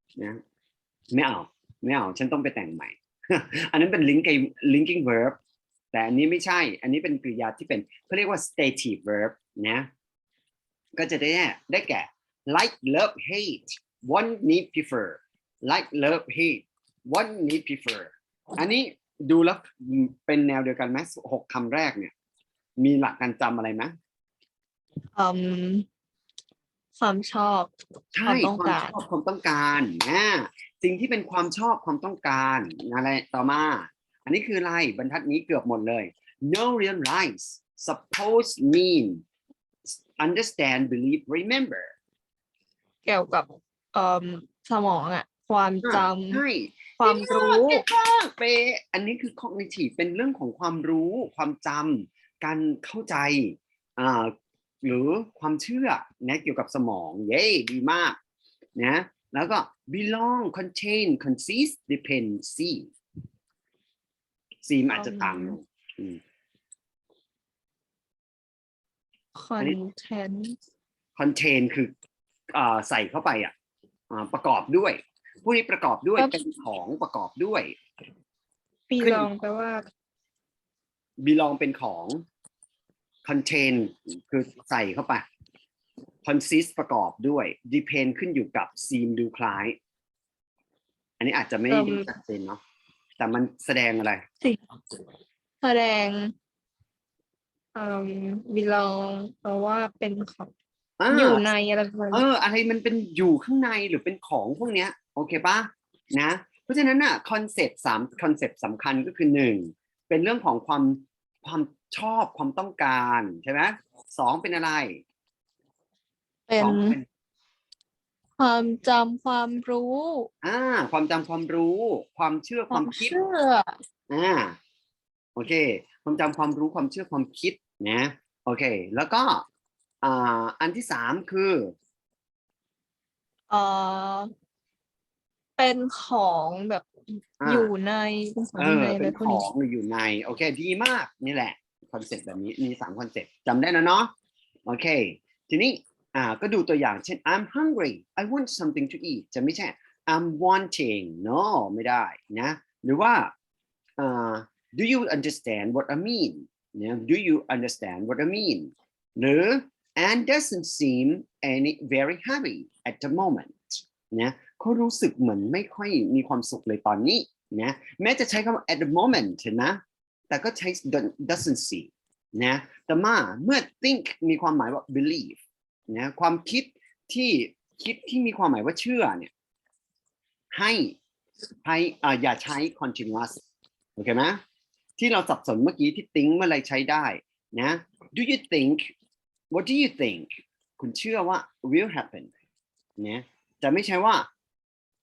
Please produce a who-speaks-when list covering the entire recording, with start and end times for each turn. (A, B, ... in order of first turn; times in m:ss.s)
0:01.1-0:05.4 A
0:05.9-0:09.9 A
0:11.0-0:22.1 A
0:22.8-0:23.9 A
0:25.1-0:25.8 B
0:27.0-0:27.7 B
0:28.1-0:39.2 A
0:28.2-0:29.0 B
0:39.9-0:41.9 A
0:43.0-0:46.4 B
0:45.8-0:58.2 A
0:47.0-0:47.8 B
0:58.8-1:02.9 A
1:04.6-1:06.2 A
1:04.9-1:05.6 B
1:09.3-1:10.5 B
1:11.2-1:11.9 A
1:12.5-1:13.5 A
1:14.1-1:17.7 A
1:18.9-1:19.8 B
1:19.0-1:19.3 A
1:21.2-1:22.2 A
1:23.2-1:25.2 A
1:26.2-1:29.8 A
1:31.2-1:32.6 A
1:31.7-1:32.1 B
1:33.2-1:34.2 A
1:35.6-1:36.3 B
1:37.7-1:40.5 B
1:41.0-1:41.4 A
1:41.1-1:42.2 B
1:42.1-1:55.0 A
1:56.5-1:57.0 B
1:56.6-1:57.0 A
1:58.4-2:00.3 B
2:00.4-2:03.1 A
2:02.7-2:03.8 B
2:04.1-2:04.6 A
2:05.4-2:09.4 A
2:10.0-2:11.7 A
2:13.5-2:14.3 B
2:15.6-2:16.9 B
2:17.4-2:17.7 A
2:17.4-2:19.4 B
2:18.6-2:24.1 A
2:24.6-2:33.3 A
2:34.0-2:59.3 A
3:00.5-3:01.0 A
3:01.6-3:03.4 A
3:04.0-3:04.4 A
3:05.0-3:08.9 A
3:09.5-3:12.3 A
3:13.0-3:14.3 A